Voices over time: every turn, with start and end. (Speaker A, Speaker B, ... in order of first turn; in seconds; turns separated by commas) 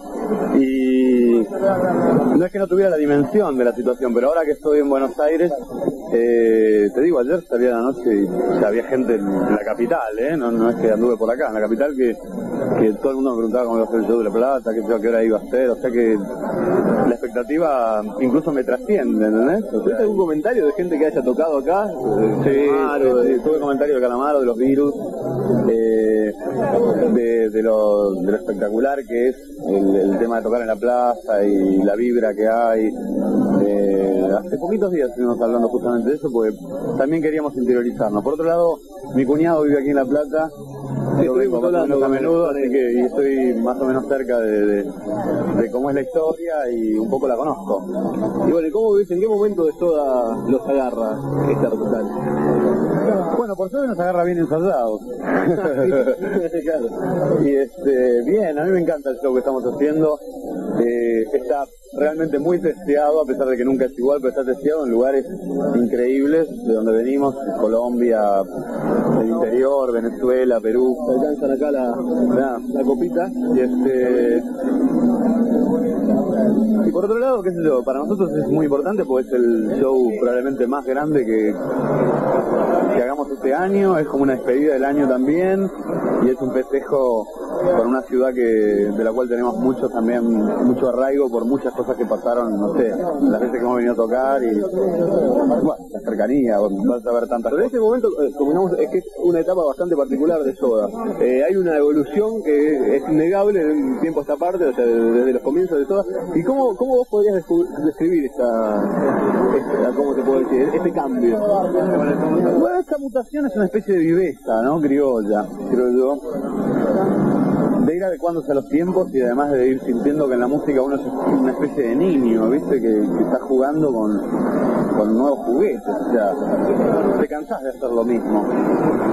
Speaker A: 0.5-1.5, Speaker A: 2.3-5.6, Speaker A: 6.1-12.2, Speaker A: 12.7-16.2, Speaker A: 17.0-20.2, Speaker B: 19.8-23.4, Speaker A: 22.4-25.0, Speaker A: 25.6-26.4, Speaker A: 27.0-33.0, Speaker A: 33.5-40.5, Speaker B: 41.2-42.8, Speaker A: 41.2-44.9, Speaker A: 45.5-47.9, Speaker B: 48.5-52.2, Speaker A: 53.1-56.2, Speaker B: 55.6-56.9, Speaker A: 57.4-60.2, Speaker A: 60.8-68.5, Speaker A: 69.2-71.0, Speaker B: 71.0-73.5, Speaker A: 72.3-72.6, Speaker A: 73.5-74.4, Speaker A: 76.8-81.6, Speaker A: 82.9-94.7, Speaker A: 95.6-97.7, Speaker B: 97.5-109.0, Speaker B: 109.5-111.5, Speaker A: 111.9-116.2, Speaker A: 117.8-124.3, Speaker A: 124.9-126.4, Speaker A: 127.1-128.5